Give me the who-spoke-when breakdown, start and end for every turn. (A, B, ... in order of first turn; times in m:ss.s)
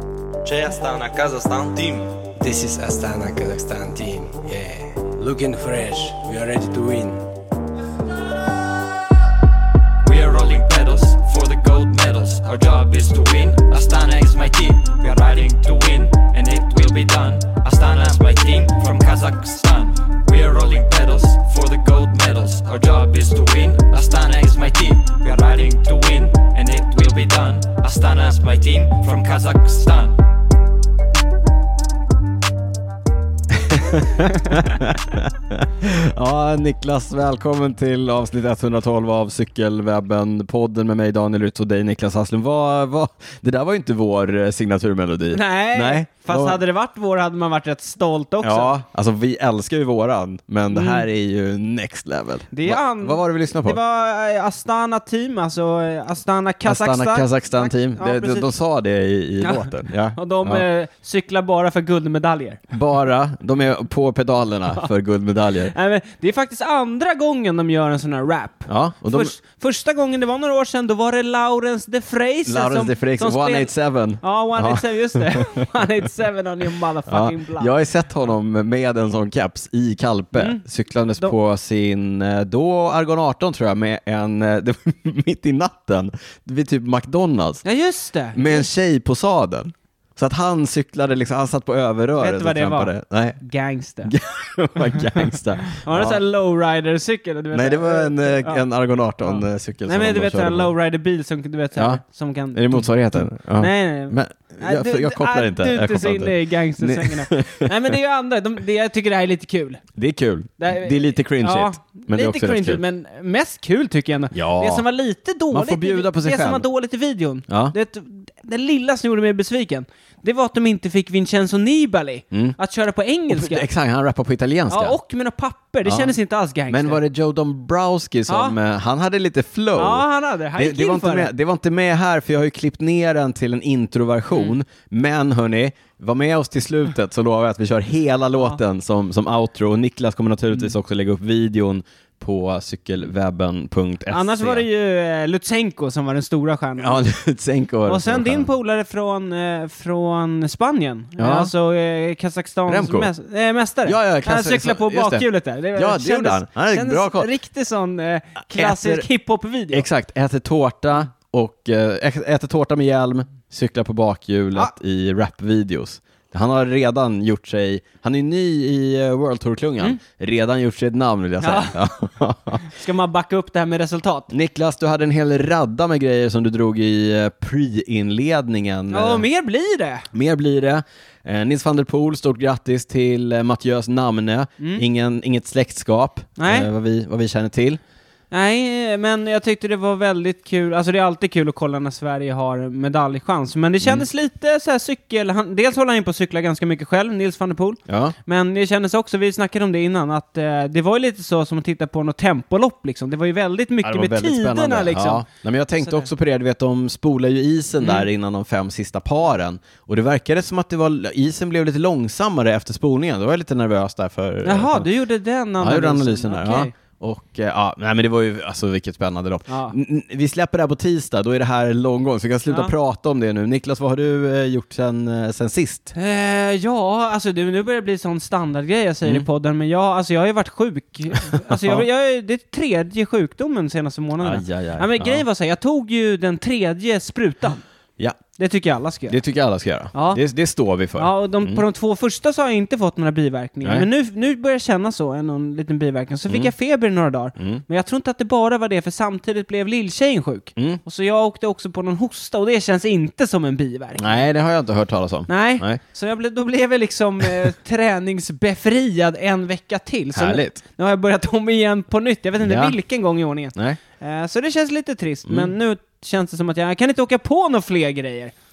0:00.4-0:02.0 A
0:02.2-0:07.3 B
0:10.0-0:30.2 A
0:33.5-0:46.6 C
0:45.3-0:48.7 D
0:48.4-0:53.8 C
0:50.7-0:51.0 D
0:52.5-0:58.5 D
0:56.6-1:00.6 C
0:59.4-1:02.6 D
1:02.7-1:05.7 C
1:05.7-1:17.7 D
1:08.7-1:09.4 C
1:12.4-1:15.5 C
1:17.1-1:27.6 C
1:20.3-1:20.6 D
1:27.6-1:28.7 D
1:28.3-1:33.4 C
1:32.2-1:34.1 D
1:34.0-1:36.2 C
1:35.2-1:38.6 D
1:37.5-1:40.7 C
1:39.2-1:49.8 D
1:41.8-1:42.0 C
1:42.5-1:47.7 C
1:50.0-1:52.8 C
1:50.6-2:03.7 D
1:54.3-1:54.8 C
1:55.5-1:56.6 C
1:57.5-1:57.8 C
2:02.3-2:02.6 C
2:03.3-2:05.0 C
2:04.7-2:07.0 D
2:05.8-2:06.1 C
2:06.7-2:24.6 C
2:08.3-2:08.6 D
2:09.8-2:11.3 D
2:24.1-2:27.0 D
2:26.8-2:28.5 C
2:27.8-2:39.9 D
2:31.2-2:31.5 C
2:32.7-2:33.1 C
2:33.8-2:37.3 C
2:38.4-2:39.1 C
2:39.7-2:52.6 C
2:51.4-2:51.7 D
2:52.6-2:54.3 D
2:54.3-2:59.2 C
2:58.9-3:00.1 D
3:00.1-3:07.8 C
3:06.4-3:06.7 D
3:08.3-3:25.2 D
3:17.9-3:18.2 C
3:23.8-3:34.9 C
3:25.8-3:26.1 D
3:27.8-3:28.1 D
3:34.4-3:36.7 D
3:35.6-3:45.9 C
3:39.5-3:39.7 D
3:45.9-3:57.6 D
3:51.3-3:51.8 C
3:54.2-3:55.2 C
3:58.4-3:59.1 D
3:59.1-4:01.6 C
3:59.9-4:00.2 D
4:01.0-4:14.2 D
4:07.4-4:07.6 C
4:14.0-4:15.8 C
4:15.3-4:28.3 D
4:20.1-4:20.6 C
4:22.4-4:22.7 C
4:25.2-4:25.5 C